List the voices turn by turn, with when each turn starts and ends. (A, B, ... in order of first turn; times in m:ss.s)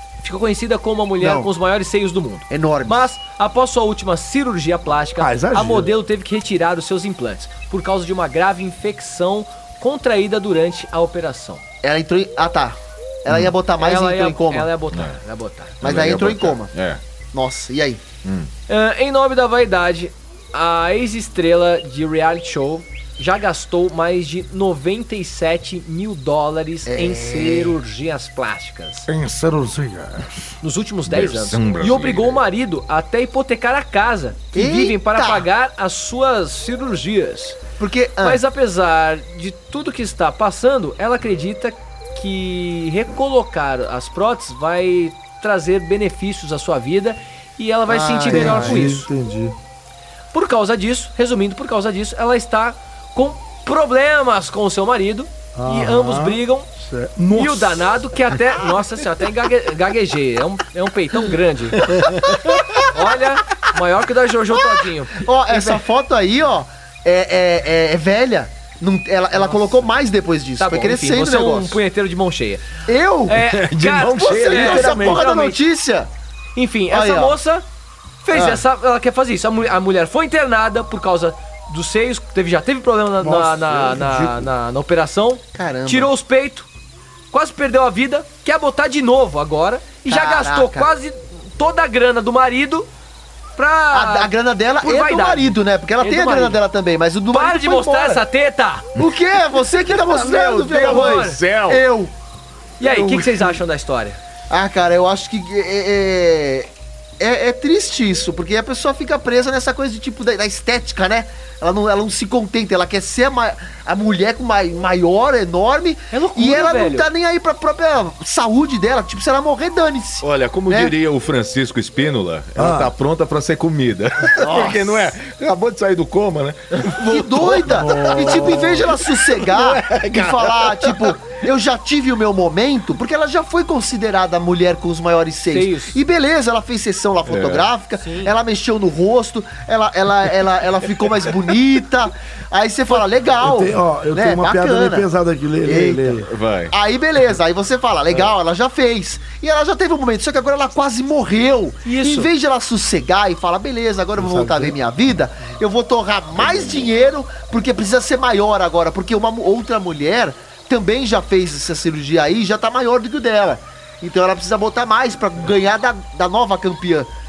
0:00.2-0:11.6 A
0:01.2-0:01.5 B
0:02.5-0:03.1 B
0:05.2-0:05.9 C
0:11.8-0:14.7 B
0:13.8-0:15.8 A
0:15.8-0:16.7 B
0:15.8-0:17.0 D
0:17.3-0:18.0 B
0:18.2-0:18.5 D
0:18.7-0:29.1 A
0:26.9-0:27.8 B
0:29.1-0:30.5 C
0:30.6-0:37.6 A
0:31.1-0:32.4 D
0:34.5-0:35.4 B
0:37.8-0:38.4 B
0:38.2-0:49.1 A
0:47.9-0:49.0 B
0:48.3-0:49.6 C
0:50.3-0:56.7 A
0:55.6-0:58.0 C
0:57.3-1:01.9 A
1:02.9-1:05.8 A
1:05.2-1:11.8 B
1:09.3-1:09.6 A
1:10.6-1:12.6 A
1:12.9-1:13.4 B
1:13.3-1:15.6 A
1:13.5-1:15.3 D
1:14.2-1:16.1 B
1:16.6-1:17.6 A
1:16.9-1:17.4 B
1:18.2-1:26.7 A
1:18.3-1:18.6 B
1:23.2-1:24.5 C
1:25.6-1:26.1 B
1:27.3-1:32.9 A
1:30.1-1:30.9 B
1:33.6-1:36.6 A
1:33.9-1:38.2 B
1:37.3-1:38.8 A
1:39.0-1:42.1 B
1:39.0-1:39.2 D
1:39.9-1:41.4 A
1:40.3-1:41.8 D
1:42.8-1:43.6 B
1:42.8-1:44.2 A
1:44.5-1:46.7 B
1:47.2-2:00.9 B
1:56.1-1:57.1 A
2:00.2-2:11.2 D
2:02.6-2:02.9 C
2:04.4-2:05.1 B
2:07.0-2:25.1 B
2:08.0-2:08.6 C
2:15.5-2:16.0 A
2:17.3-2:17.7 D
2:18.0-2:18.3 A
2:23.4-2:26.3 C
2:25.6-2:47.1 B
2:26.3-2:26.7 D
2:31.8-2:32.3 A
2:34.2-2:34.8 C
2:36.4-2:36.9 D